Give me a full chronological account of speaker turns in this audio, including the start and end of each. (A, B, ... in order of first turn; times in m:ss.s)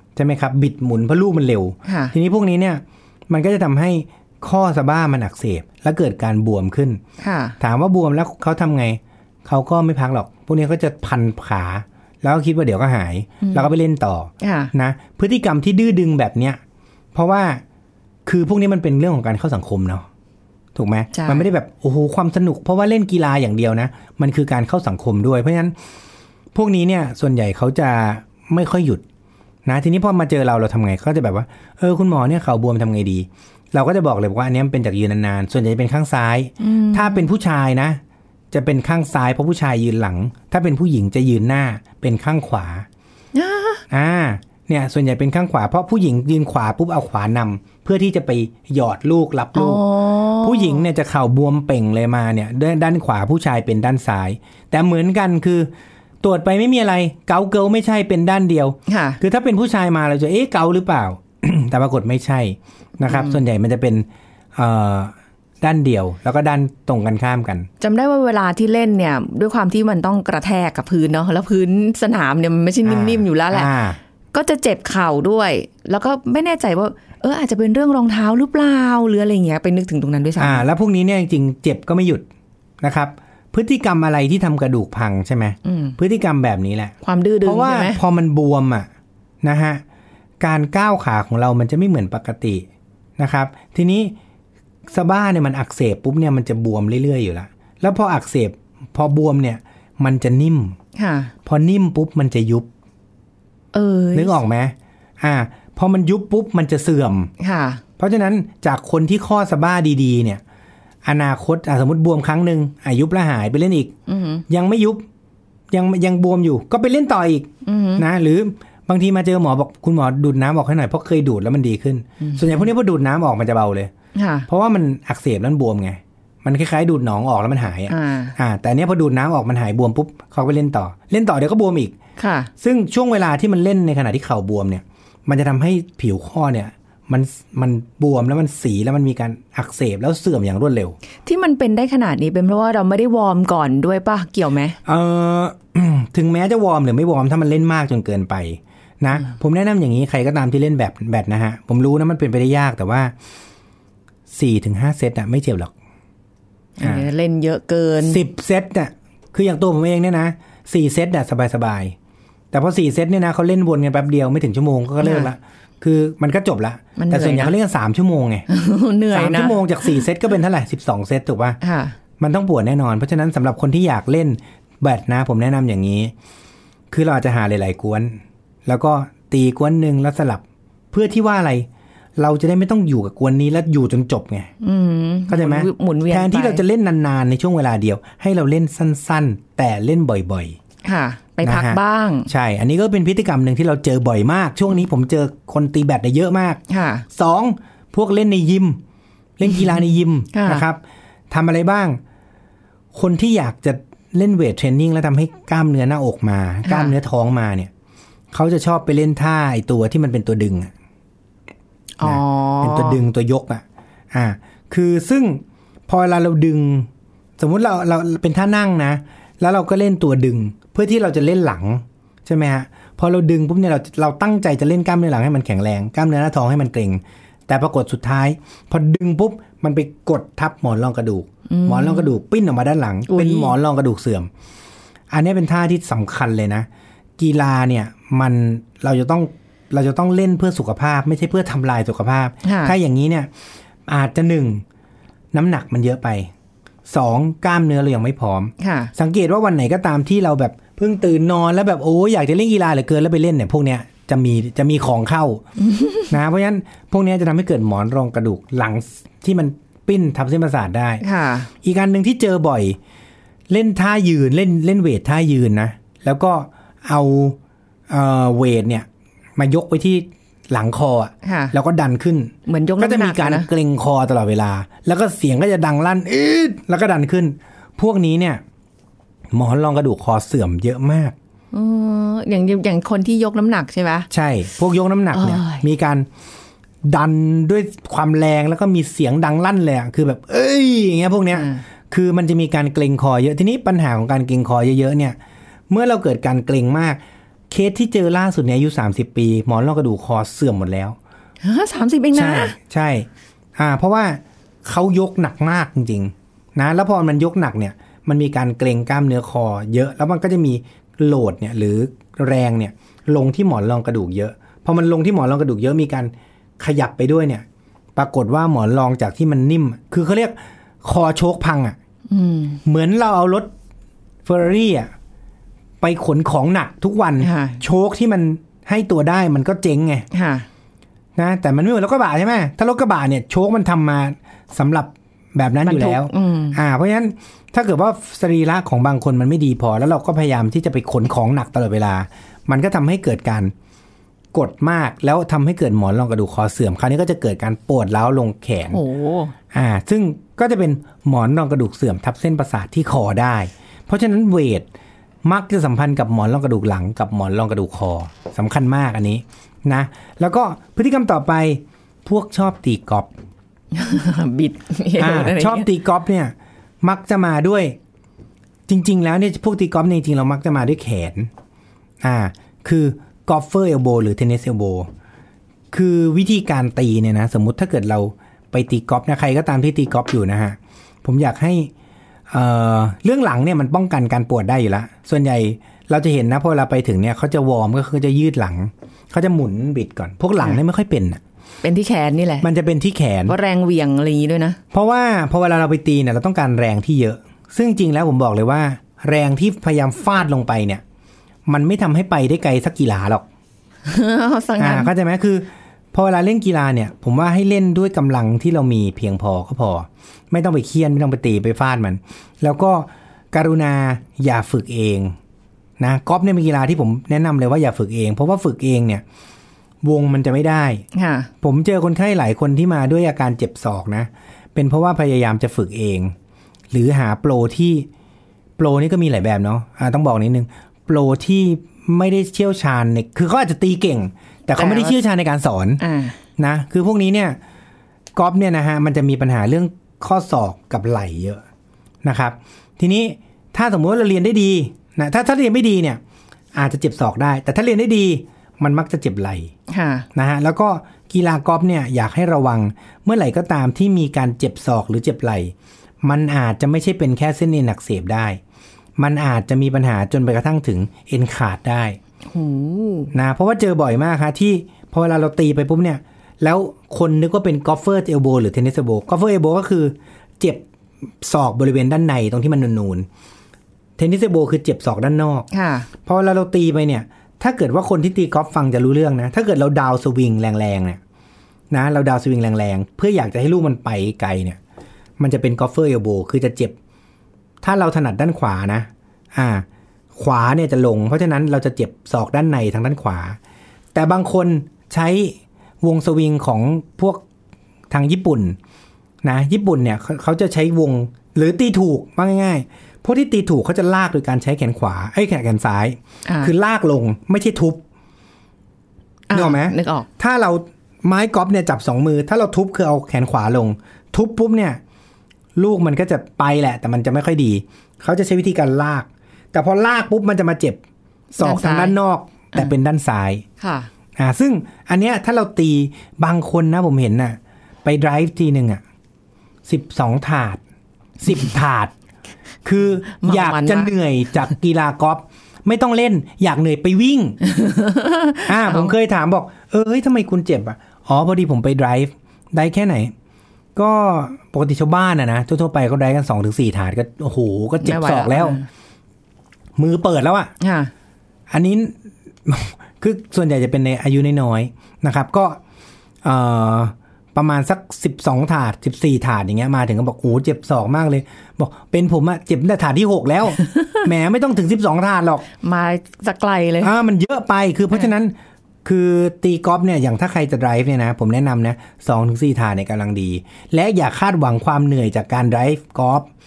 0:00.2-0:07.0 A
0:01.9-0:02.1 B
0:07.2-0:07.6 B
0:07.6-0:16.6 A
0:13.4-0:13.7 B
0:14.4-0:14.7 B
0:17.1-0:17.6 A
0:18.2-0:20.1 A
0:20.8-0:25.7 A
0:21.1-0:21.5 B
0:26.5-0:29.0 A
0:29.6-0:38.0 A
0:36.6-0:37.3 B
0:38.5-0:42.9 A
0:43.3-0:43.8 B
0:43.9-0:49.9 A
0:49.6-0:50.8 B
0:50.4-0:55.7 A
0:56.2-1:07.7 A
0:58.9-0:59.2 B
1:03.1-1:03.4 B
1:07.8-1:13.7 B
1:12.8-1:14.0 A
1:14.3-1:20.6 B
1:20.4-1:22.2 A
1:22.8-1:28.9 A
1:25.7-1:26.0 B
1:27.0-1:28.0 B
1:29.4-1:29.8 A
1:30.4-1:32.6 A
1:33.2-1:34.1 A
1:34.9-1:40.8 A
1:41.0-1:41.3 B
1:41.4-1:42.7 A
1:43.7-1:44.4 B
1:44.1-1:47.3 A
1:47.4-1:47.8 B
1:48.0-1:50.4 A
1:51.0-1:53.9 A
1:54.1-1:54.4 B
1:54.5-1:55.0 A
1:55.7-2:03.9 A
1:57.7-1:58.0 B
2:02.2-2:02.6 B
2:04.2-2:04.5 B
2:04.5-2:12.0 A
2:07.9-2:08.4 B
2:12.2-2:12.5 B
2:12.6-2:21.0 A
2:21.3-2:24.8 B
2:24.9-2:33.1 A
2:34.3-2:35.7 A
2:36.8-2:38.2 B
2:36.8-2:37.1 A
2:38.0-2:42.0 A
2:42.5-2:48.5 A
2:45.0-2:45.3 B
2:47.0-2:47.5 B
2:48.5-2:50.0 B
2:49.1-2:51.6 A
2:51.6-2:52.0 B
2:52.2-2:56.1 A
2:56.9-3:04.5 A
3:04.6-3:06.6 B
3:05.3-3:10.6 A
3:10.8-3:12.3 B
3:11.4-3:18.8 A
3:16.7-3:17.0 B
3:19.4-3:22.0 A
3:20.3-3:20.6 B
3:22.9-3:27.7 A
3:26.7-3:26.9 B
3:28.3-3:30.7 A
3:32.0-3:33.0 B
3:32.0-3:54.3 A
3:51.5-3:52.1 B
3:53.1-3:53.5 B
3:55.1-3:56.7 A
3:57.2-4:03.3 A
4:02.4-4:02.8 B
4:03.9-4:04.6 A
4:05.3-4:06.3 A
4:06.9-4:15.4 A
4:08.6-4:08.9 B
4:15.6-4:16.1 B
4:16.1-4:21.0 A
4:21.0-4:21.5 B
4:21.6-4:22.8 A
4:23.5-4:27.4 A
4:27.9-4:38.4 A
4:31.2-4:31.5 B
4:32.5-4:33.5 B
4:39.3-4:41.2 A
4:41.5-4:44.1 B
4:44.1-4:46.1 A
4:45.1-4:45.6 B
4:46.8-4:55.2 A
4:51.3-4:51.6 B
4:55.7-5:01.0 A
5:01.4-5:02.6 B
5:02.1-5:17.4 A
5:18.0-5:21.8 A
5:22.1-5:22.6 B
5:22.6-5:23.5 A
5:24.2-5:24.9 A
5:25.8-5:30.1 A
5:27.2-5:27.6 B
5:30.1-5:30.5 B
5:31.2-5:43.5 A
5:35.6-5:36.6 B
5:44.3-5:48.8 A
5:48.7-5:49.3 B
5:49.5-5:54.7 A
5:55.2-6:03.1 A
6:03.7-6:05.7 B
6:05.0-6:07.8 A
6:08.7-6:11.3 A
6:12.0-6:14.9 A
6:15.7-6:21.7 A
6:22.3-6:31.2 A
6:31.6-6:32.5 B
6:32.4-6:33.4 A
6:33.3-6:34.6 B
6:34.7-6:40.8 A
6:41.5-6:43.3 A
6:43.9-6:44.9 B
6:44.6-6:55.2 A
6:55.8-6:59.0 A
6:59.8-7:00.8 A
7:01.0-7:01.3 B
7:01.4-7:06.1 A
7:06.7-7:07.9 A
7:08.6-7:15.8 A
7:14.6-7:15.0 B
7:15.8-7:16.2 B
7:16.4-7:17.4 A
7:18.2-7:21.4 A
7:22.0-7:26.0 A
7:26.5-7:29.5 A
7:29.7-7:30.1 B
7:30.2-7:38.4 A
7:39.0-7:42.0 A
7:42.3-7:43.1 B
7:43.1-7:50.6 A
7:51.2-7:53.1 A
7:54.0-7:55.5 A
7:55.5-7:55.9 B
7:56.1-8:01.0 A
8:01.7-8:04.6 A
8:05.2-8:06.8 A
8:07.6-8:13.4 A
8:13.9-8:17.2 A
8:17.9-8:18.6 A
8:19.2-8:27.8 A
8:26.3-8:26.5 B
8:29.3-8:30.1 B
8:29.3-8:34.8 A
8:35.6-8:40.8 A
8:41.4-8:43.4 A
8:41.4-8:42.0 B
8:43.6-8:43.9 B
8:44.2-8:48.8 A
8:49.7-8:50.6 A
8:51.2-8:51.9 A
8:52.6-8:57.4 A
8:53.2-8:53.9 B
8:57.4-8:58.9 B
8:58.4-9:03.1 A
9:03.8-9:08.6 A
9:07.8-9:08.7 B
9:09.8-9:10.5 A
9:10.6-9:10.9 B
9:11.5-9:15.6 A
9:16.2-9:25.5 A
9:25.6-9:26.9 B
9:26.8-9:36.3 A